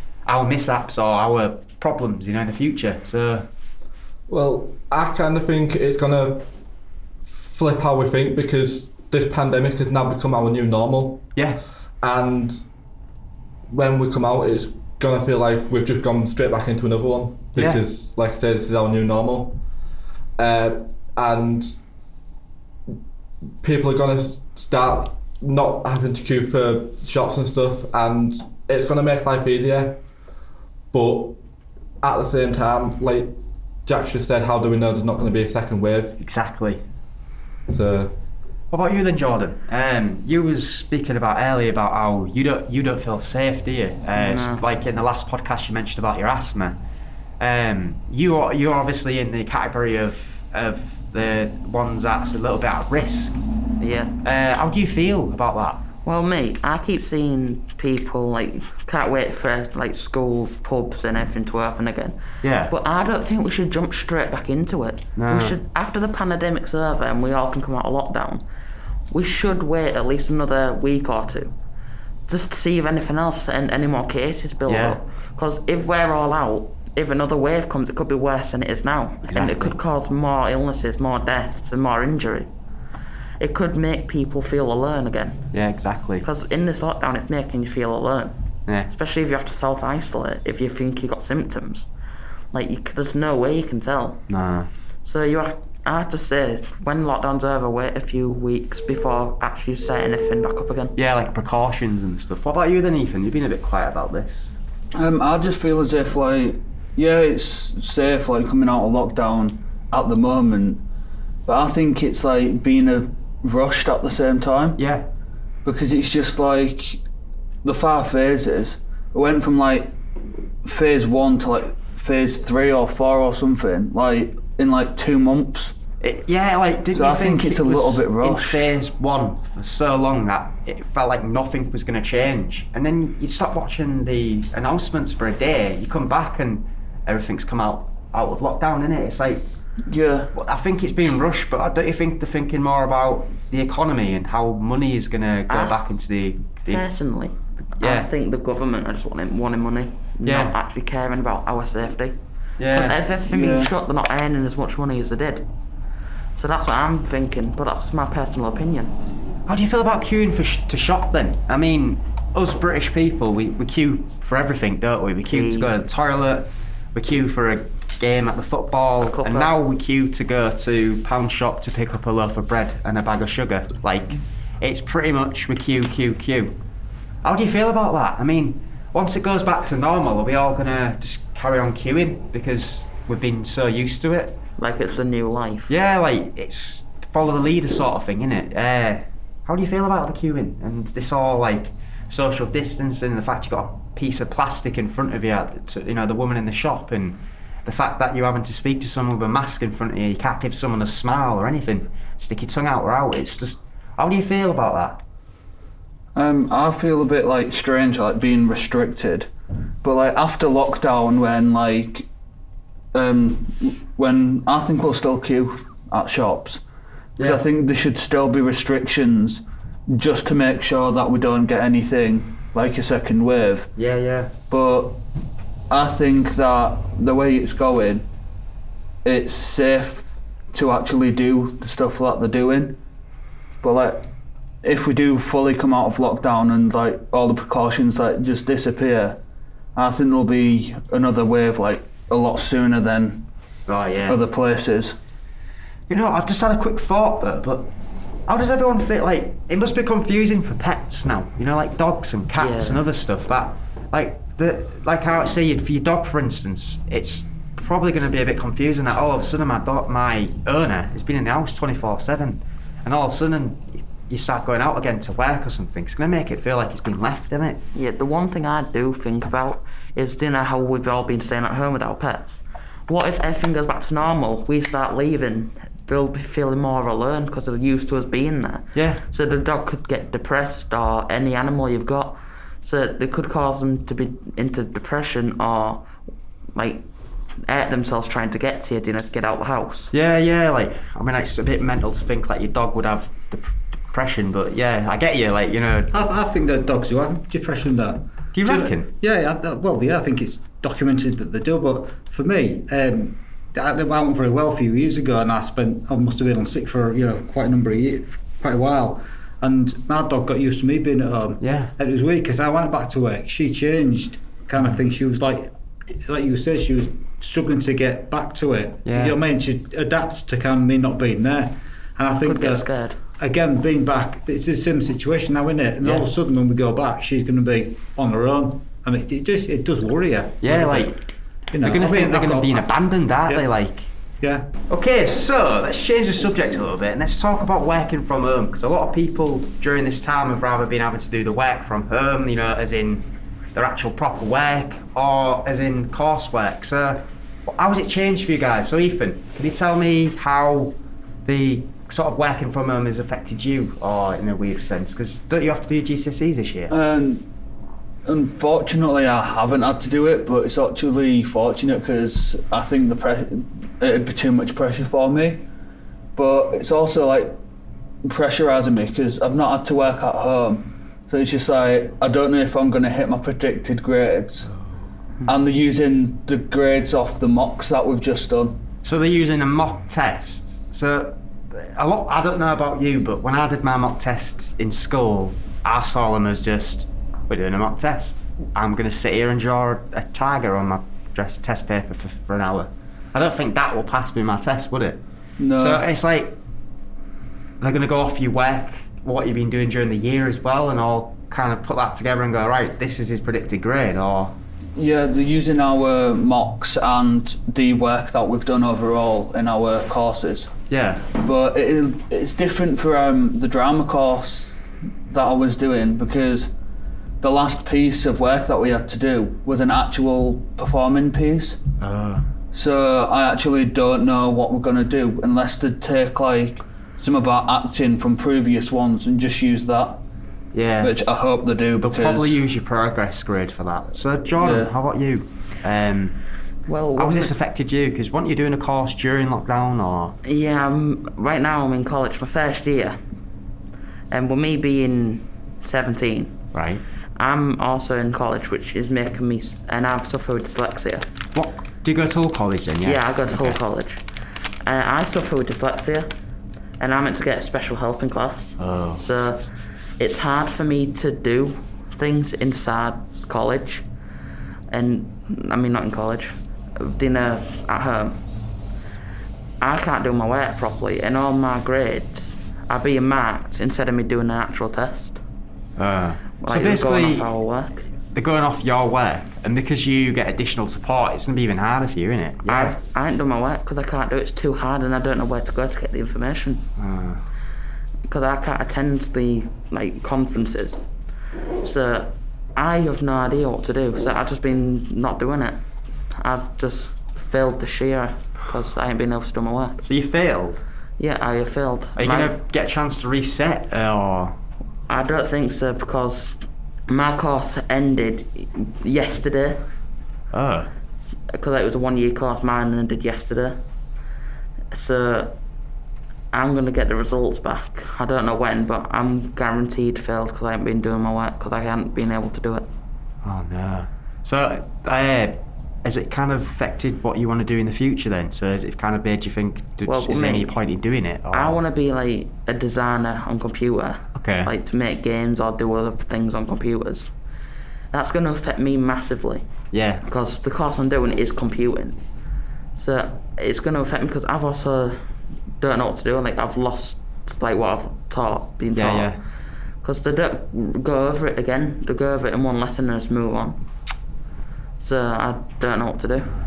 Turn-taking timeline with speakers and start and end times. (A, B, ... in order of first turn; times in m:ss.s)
0:00.2-0:03.5 A
0:04.3-0:06.4 B
0:07.3-0:11.2 B
0:11.4-0:11.6 A
0:12.0-0:12.6 B
0:13.7-0:19.6 B
0:17.5-0:17.8 A
0:20.4-0:21.8 B
0:23.6-0:30.0 B
0:30.9-0:31.4 B
0:32.0-0:36.2 B
0:36.2-0:36.8 A
0:37.7-0:38.2 B
0:38.7-0:46.8 A
0:44.1-0:44.6 C
0:47.4-0:53.4 A
0:53.8-0:54.1 C
0:54.2-0:55.8 A
0:56.0-1:08.4 C
1:02.4-1:02.7 A
1:05.2-1:05.6 A
1:09.1-1:11.5 C
1:12.3-1:22.5 C
1:14.7-1:15.0 A
1:19.3-1:19.8 A
1:23.4-1:25.4 C
1:25.5-1:26.2 A
1:26.2-1:28.4 C
1:28.9-1:31.9 C
1:32.5-1:34.2 C
1:34.3-1:34.7 A
1:35.0-1:40.9 C
1:40.9-1:44.5 A
1:44.9-1:50.8 D
1:51.4-1:54.8 D
1:54.8-1:55.0 A
1:55.6-1:57.0 D
1:57.6-1:59.9 D
2:00.6-2:05.8 D
2:06.0-2:19.4 A
2:06.9-2:08.7 D
2:19.9-2:20.3 D
2:20.3-2:26.8 A
2:25.5-2:25.8 C
2:26.7-2:32.2 C
2:27.8-2:28.1 A
2:30.2-2:30.6 A
2:32.6-2:33.0 A
2:32.7-2:35.5 C
2:33.3-2:33.7 D
2:36.3-2:39.0 C
2:39.4-2:56.5 A
2:45.3-2:45.7 C
2:49.1-2:49.5 C
2:57.2-3:04.4 A
3:04.6-3:05.7 C
3:05.7-3:25.0 A
3:26.1-3:29.3 D
3:29.8-3:32.1 D
3:32.9-3:36.6 D
3:37.2-3:37.4 A
3:37.2-3:43.7 D
3:43.8-3:44.3 A
3:44.5-3:45.0 D
3:45.7-3:48.0 D
3:49.0-3:52.8 D
3:53.6-3:54.1 D
3:54.6-3:59.2 D
3:59.7-4:03.2 D
4:03.7-4:04.2 A
4:04.1-4:05.0 D
4:05.9-4:07.7 A
4:08.3-4:27.6 A
4:12.4-4:12.8 C
4:27.7-4:45.9 C
4:38.7-4:39.0 A
4:46.5-4:46.8 C
4:47.4-4:49.9 C
4:49.9-4:55.9 A
4:55.9-5:31.0 E
4:58.3-4:58.9 A
5:11.4-5:11.7 A
5:18.8-5:19.2 A
5:22.2-5:23.0 C
5:25.8-5:26.1 A
5:30.4-5:31.0 A
5:31.5-5:32.6 E
5:31.6-5:33.9 A
5:34.2-5:34.5 E
5:34.7-5:56.7 A
5:56.7-5:57.3 D
5:58.0-6:05.4 D
6:06.2-6:07.4 D
6:08.0-6:14.5 D
6:15.2-6:18.6 D
6:18.8-6:35.0 A
6:35.4-6:35.8 D
6:35.6-6:36.4 A
6:37.6-6:44.4 A
6:44.8-6:50.5 D
6:50.7-6:51.0 A
6:51.2-6:56.5 D
6:57.2-7:01.6 D
7:01.8-7:02.3 A
7:02.5-7:10.0 D
7:10.5-7:11.0 A
7:10.8-7:12.4 D
7:11.8-7:16.2 A
7:14.4-7:14.7 D
7:16.7-7:17.3 C
7:17.0-7:20.2 A
7:20.2-7:23.0 C
7:24.1-7:26.4 C
7:26.5-7:26.8 A
7:27.2-7:31.1 C
7:31.3-7:33.6 A
7:32.8-7:34.0 C
7:34.6-7:36.1 C
7:36.8-7:39.4 C
7:38.6-7:39.0 A
7:40.0-7:43.8 C
7:44.7-7:48.2 C
7:49.6-7:55.2 C
7:55.8-7:57.3 A
7:56.4-7:57.9 C
7:58.1-8:02.8 A
8:02.4-8:06.7 C
8:06.8-8:07.2 A
8:08.1-8:10.8 C
8:11.6-8:15.6 C
8:16.1-8:19.8 C
8:19.8-8:20.6 A
8:21.0-8:22.4 C
8:22.0-8:24.4 A
8:24.9-8:26.4 C
8:26.9-8:29.6 C
8:30.3-8:30.7 A
8:31.3-8:33.6 C
8:34.7-8:35.3 C
8:36.3-8:42.7 C
8:43.2-8:51.6 A
8:49.8-8:50.5 C
8:51.3-8:57.1 C
8:54.2-8:54.5 A
8:57.9-8:59.4 C
8:59.7-9:00.0 A
9:00.0-9:02.0 C
9:02.8-9:09.1 C
9:08.7-9:09.2 A
9:09.8-9:13.6 C
9:14.8-9:16.3 C